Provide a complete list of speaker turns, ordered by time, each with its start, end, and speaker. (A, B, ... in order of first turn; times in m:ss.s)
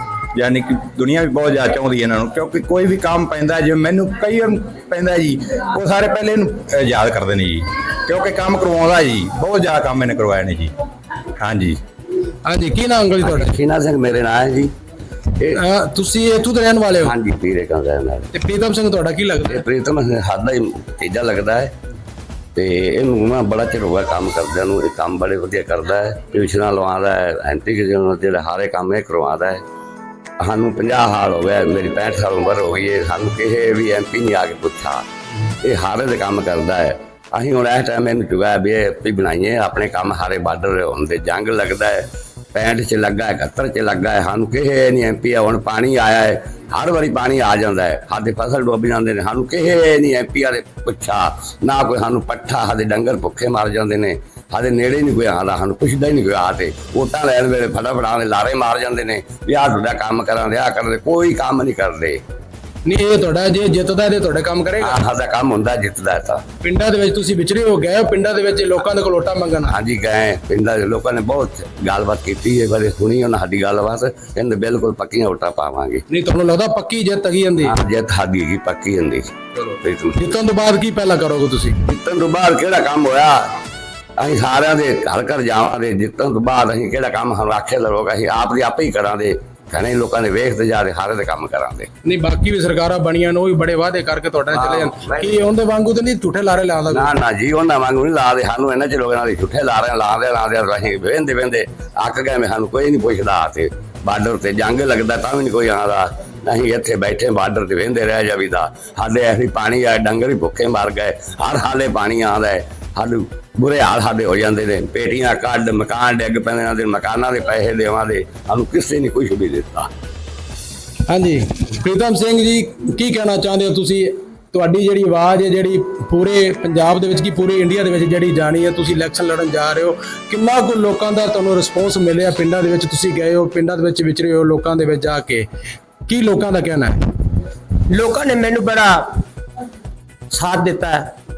0:00.4-0:10.7 A
0:11.4-0:11.8 A
0:12.4-0:13.5 B
0:13.2-0:14.7 C
0:15.5-0:17.1 B
0:17.0-0:18.3 C
0:18.3-0:19.6 B
0:19.5-0:21.7 C
0:22.6-0:29.6 C
0:30.4-0:35.0 C
0:35.6-0:42.0 C
0:42.5-1:02.2 C
1:02.8-1:05.0 B
1:04.8-1:06.4 C
1:06.6-1:09.7 B
1:09.7-1:16.0 C
1:16.1-1:17.7 B
1:17.6-1:19.3 C
1:19.6-1:21.8 B
1:19.8-1:20.2 C
1:21.9-1:23.4 C
1:24.2-1:31.9 C
1:32.0-1:37.1 B
1:34.5-1:35.4 C
1:36.9-1:59.9 C
2:01.1-2:15.5 B
2:16.1-2:17.0 B
2:17.9-2:19.2 D
2:20.3-2:21.0 D